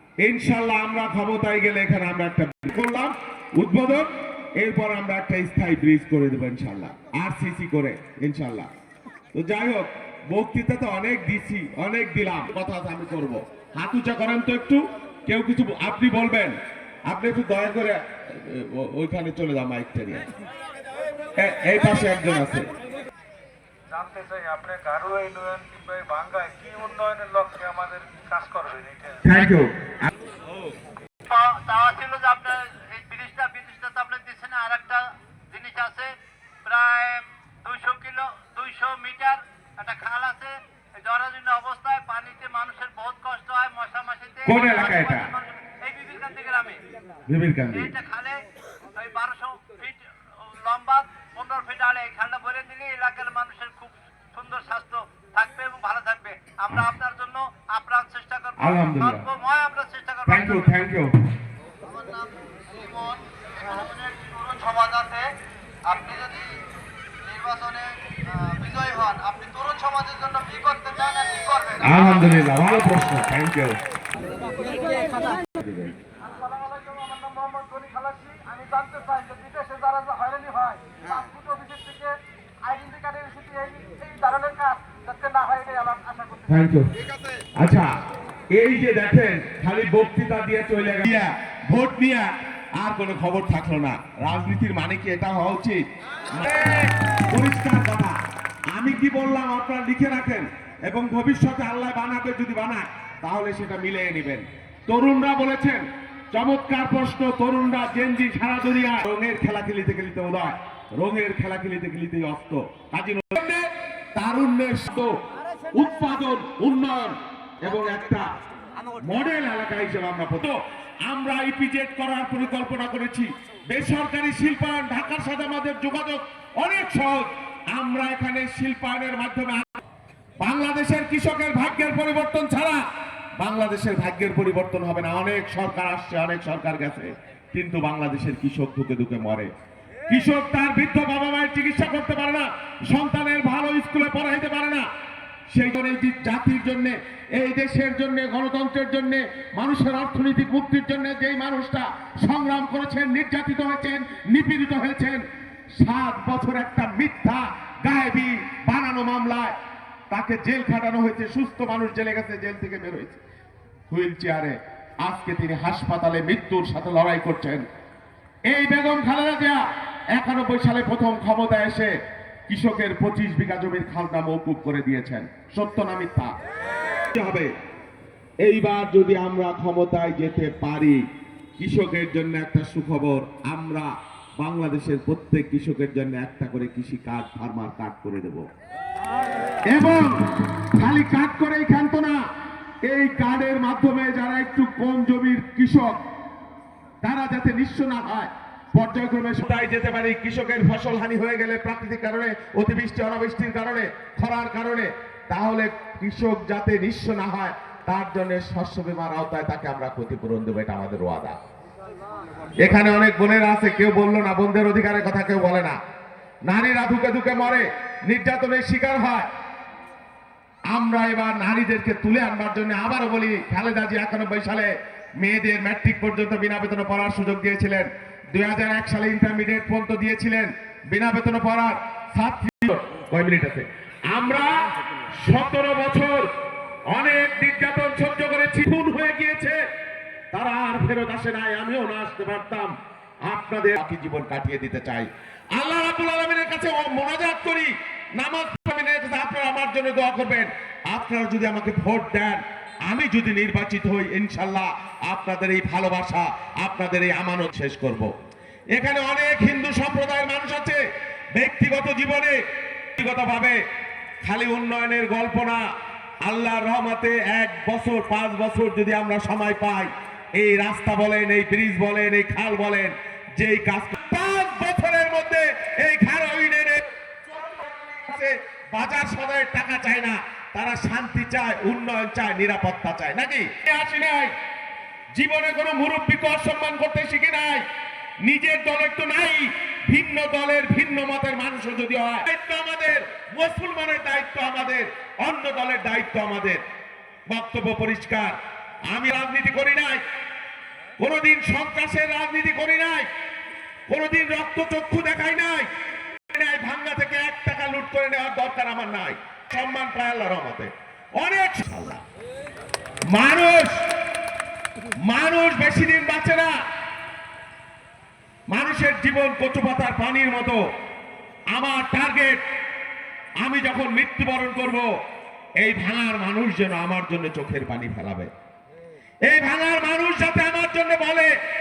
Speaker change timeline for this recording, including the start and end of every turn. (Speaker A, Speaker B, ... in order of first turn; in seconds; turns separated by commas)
Speaker A: 0.2-8.7, Speaker A: 9.3-16.5, Speaker A: 17.1-20.3, Speaker A: 21.4-22.7, Speaker B: 23.9-29.2, Speaker A: 29.2-30.1, Speaker C: 31.2-36.1, Speaker C: 36.6-46.8, Speaker A: 44.5-45.3, Speaker A: 47.3-47.9, Speaker C: 47.7-48.4, Speaker C: 49.0-60.8, Speaker A: 58.6-59.2, Speaker A: 60.3-61.2, Speaker C: 61.8-65.3, Speaker C: 65.9-66.6, Speaker C: 67.2-72.8, Speaker A: 71.8-73.8, Speaker C: 74.9-75.2, Speaker A: 75.4-76.0, Speaker B: 76.3-86.4, Speaker C: 85.8-86.2, Speaker A: 86.5-86.9, Speaker A: 87.6-87.9, Speaker A: 88.5-98.2, Speaker A: 98.7-115.1, Speaker A: 115.7-118.3, Speaker A: 119.0-129.8, Speaker A: 130.4-132.8, Speaker A: 133.4-139.5, Speaker A: 140.1-144.8, Speaker A: 145.5-155.2, Speaker A: 155.8-159.6, Speaker A: 160.1-163.2, Speaker A: 163.9-167.6, Speaker A: 168.5-169.6, Speaker A: 170.1-171.9, Speaker A: 172.5-176.3, Speaker A: 177.1-177.5, Speaker A: 178.4-181.0, Speaker A: 181.6-188.4, Speaker A: 189.7-192.2, Speaker A: 192.8-196.0, Speaker A: 197.0-211.4, Speaker A: 212.6-215.8, Speaker A: 216.5-219.3, Speaker A: 220.7-236.3, Speaker A: 236.9-239.6, Speaker A: 240.3-242.7, Speaker A: 243.3-258.1, Speaker A: 258.8-260.8, Speaker A: 261.3-262.4, Speaker A: 263.0-263.6, Speaker A: 264.2-265.6, Speaker A: 266.2-284.3, Speaker A: 285.1-287.6, Speaker A: 288.2-296.6, Speaker A: 297.3-298.3, Speaker A: 298.9-300.0, Speaker A: 301.0-303.1, Speaker A: 303.9-305.7, Speaker A: 306.3-312.0, Speaker A: 313.1-313.8, Speaker A: 315.1-316.5, Speaker A: 318.5-320.6, Speaker A: 321.5-322.4, Speaker A: 323.4-324.9, Speaker A: 325.6-328.3, Speaker A: 329.3-331.3